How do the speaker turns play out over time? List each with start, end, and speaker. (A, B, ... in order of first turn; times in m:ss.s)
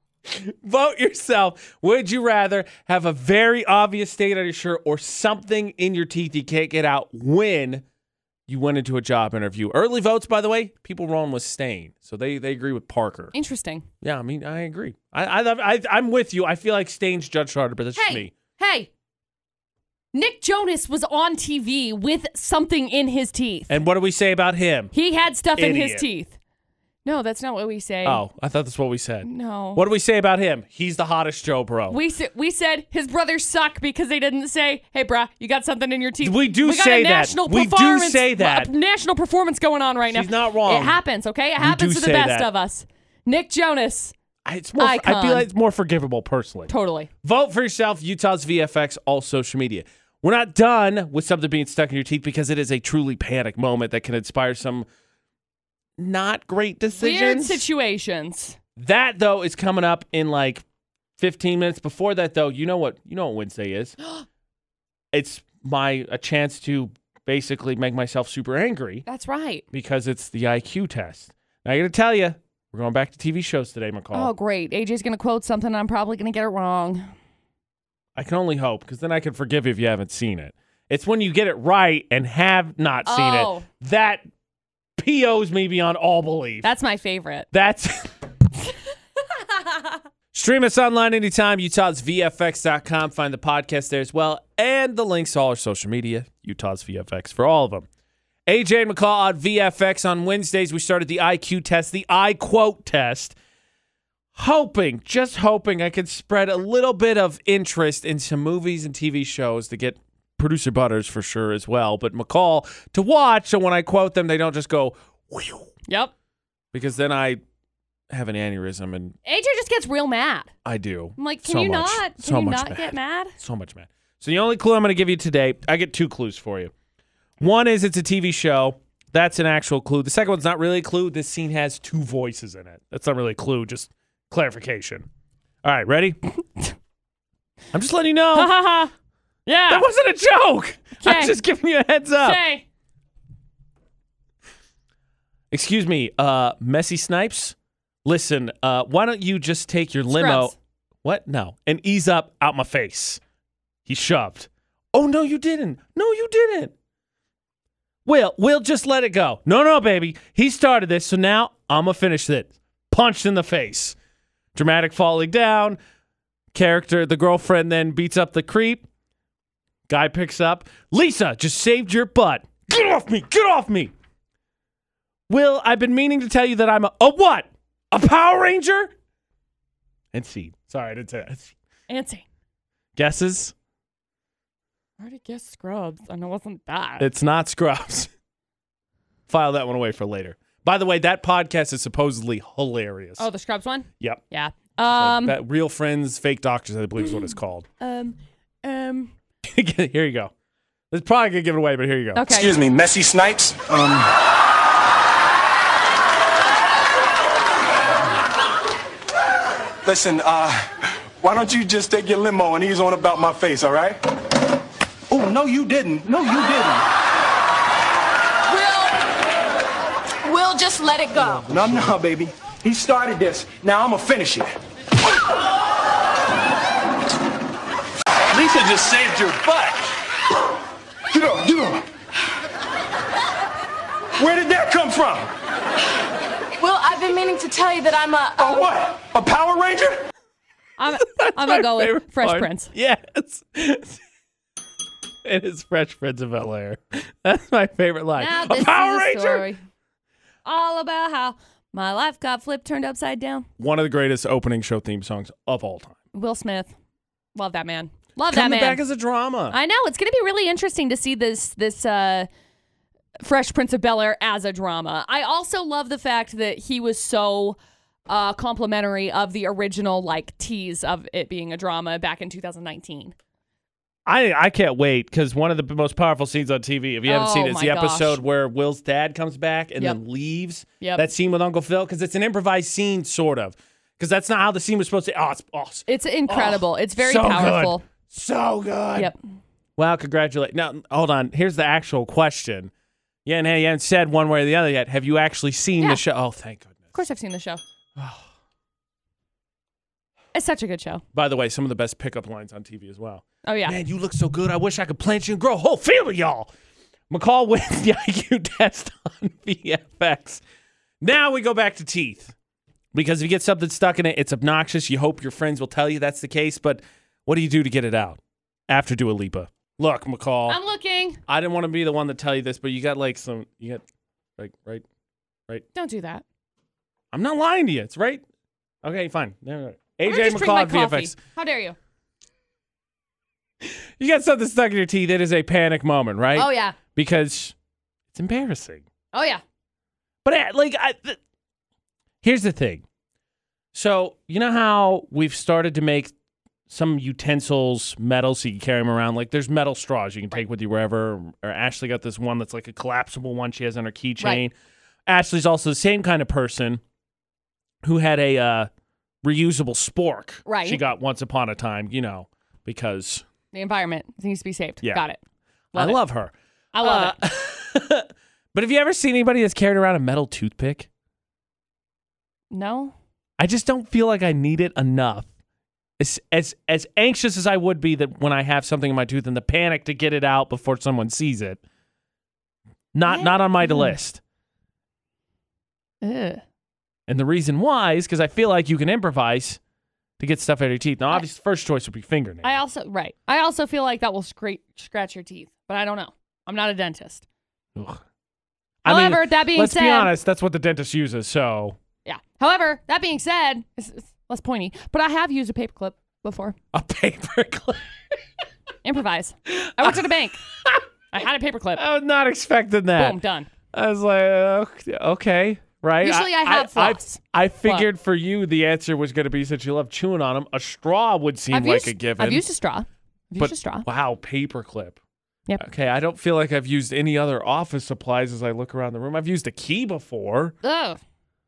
0:00.3-0:07.8 A
0:08.5-0:13.3 A
0:13.3-0:13.8 B
0:14.0-0:18.3 A
0:18.0-0:18.9 B
0:20.1-0:23.8 B
0:23.7-0:24.9 A
0:24.9-0:26.4 B
0:25.6-0:26.1 A
0:27.0-0:28.2 B
0:28.0-0:32.0 A
0:29.2-0:29.8 B
0:31.9-0:44.1 B
0:36.2-0:38.7 A
0:40.1-0:41.0 A
0:41.6-0:42.5 A
0:44.4-0:46.7 A
0:44.8-0:45.5 B
0:46.7-0:47.1 B
0:47.2-0:54.9 A
0:56.0-0:57.6 A
0:57.0-0:58.6 B
0:58.8-1:00.6 A
1:01.2-1:04.0 A
1:05.1-1:09.0 A
1:09.0-1:09.6 B
1:09.7-1:14.3 A
1:14.1-1:17.1 B
1:18.1-1:24.2 A
1:23.0-1:23.6 B
1:25.0-1:26.7 A
1:26.6-1:27.5 B
1:27.5-1:28.1 A
1:29.3-1:30.0 B
1:30.3-1:37.9 A
1:38.5-1:43.4 A
1:44.3-1:55.7 A
1:55.9-1:56.1 B
1:56.7-1:57.4 A
1:58.1-1:59.1 A
1:59.2-2:00.5 B
2:00.6-2:06.7 A
2:01.2-2:03.3 B
2:07.4-2:15.0 A
2:15.6-2:16.2 A
2:17.7-2:18.5 A
2:18.3-2:18.9 B
2:19.4-2:19.9 B
2:19.7-2:22.4 A
2:21.0-2:21.4 B
2:22.2-2:22.6 B
2:25.5-2:33.2 A
2:30.1-2:30.5 B
2:33.8-2:36.7 A
2:38.0-2:44.0 A
2:44.5-2:45.8 A
2:46.5-2:48.8 A
2:49.9-2:53.9 A
2:55.3-2:58.9 A
3:00.1-3:01.5 A
3:01.9-3:02.2 B
3:03.0-3:03.5 A
3:05.0-3:07.1 B
3:07.0-3:08.1 A
3:09.3-3:13.2 A
3:13.2-3:15.4 B
3:14.8-3:17.7 A
3:17.0-3:17.3 B
3:17.8-3:19.1 B
3:19.4-3:20.3 A
3:20.9-3:22.2 A
3:22.1-3:22.6 B
3:22.3-3:24.1 C
3:29.8-3:30.7 C
3:31.2-3:34.0 C
3:35.1-3:36.8 C
3:38.5-3:39.0 D
3:40.2-3:41.5 D
3:41.4-3:44.5 C
3:48.3-3:49.9 C
3:51.1-3:51.9 C
3:54.2-3:55.3 C
3:56.6-3:58.7 D
3:58.4-4:00.1 C
4:00.8-4:02.7 B
4:00.9-4:04.0 A
4:05.2-4:09.5 A
4:08.2-4:09.6 B
4:10.4-4:13.5 B
4:13.6-4:16.0 A
4:16.1-4:16.7 B
4:17.3-4:18.8 B
4:18.3-4:19.6 A
4:19.5-4:22.3 B
4:23.2-4:27.6 B
4:28.1-4:33.1 B
4:34.0-4:49.1 A
4:37.0-4:38.2 B
4:40.8-4:41.1 B
4:45.9-4:47.8 B
4:49.8-4:52.7 A
4:53.2-4:57.0 A
4:55.8-4:56.0 B
4:56.9-4:57.6 B
4:58.0-4:58.3 A
5:00.3-5:01.0 B
5:01.1-5:06.5 A
5:03.4-5:03.8 B
5:07.1-5:10.4 A
5:11.0-5:12.3 A
5:12.9-5:20.6 A
5:20.5-5:21.2 B
5:21.3-5:23.8 A
5:24.4-5:24.8 A
5:25.7-5:26.2 B
5:27.1-5:28.2 A
5:28.8-5:31.2 A
5:30.0-5:31.8 B
5:33.6-5:37.5 A
5:36.3-5:36.8 B
5:38.1-5:38.8 A
5:39.1-5:39.4 B
5:40.2-5:41.2 A
5:42.2-5:42.8 A
5:43.7-5:46.1 A
5:46.7-5:54.5 A
5:55.1-5:56.8 A
5:57.8-5:58.7 A
5:59.2-6:03.2 A
6:00.4-6:00.8 B
6:03.5-6:05.2 B
6:05.7-6:06.0 B
6:05.7-6:10.9 A
6:06.7-6:07.1 B
6:12.5-6:12.9 B
6:13.4-6:15.3 A
6:16.0-6:21.6 A
6:22.9-6:24.2 A
6:23.1-6:23.9 B
6:26.0-6:26.4 B
6:27.1-6:29.6 A
6:30.2-6:32.5 A
6:32.4-6:37.2 B
6:37.8-6:38.0 A
6:38.8-6:41.8 A
6:38.8-6:40.1 B
6:42.0-6:46.6 B
6:46.7-6:47.9 A
6:48.8-6:50.4 B
6:49.5-6:50.0 A
6:51.1-6:51.8 B
6:51.8-6:53.2 A
6:53.0-6:53.5 B
6:53.7-7:02.4 A
6:56.0-6:57.9 B
7:01.5-7:03.9 B
7:03.4-7:05.0 A
7:05.6-7:10.5 A
7:10.6-7:11.0 B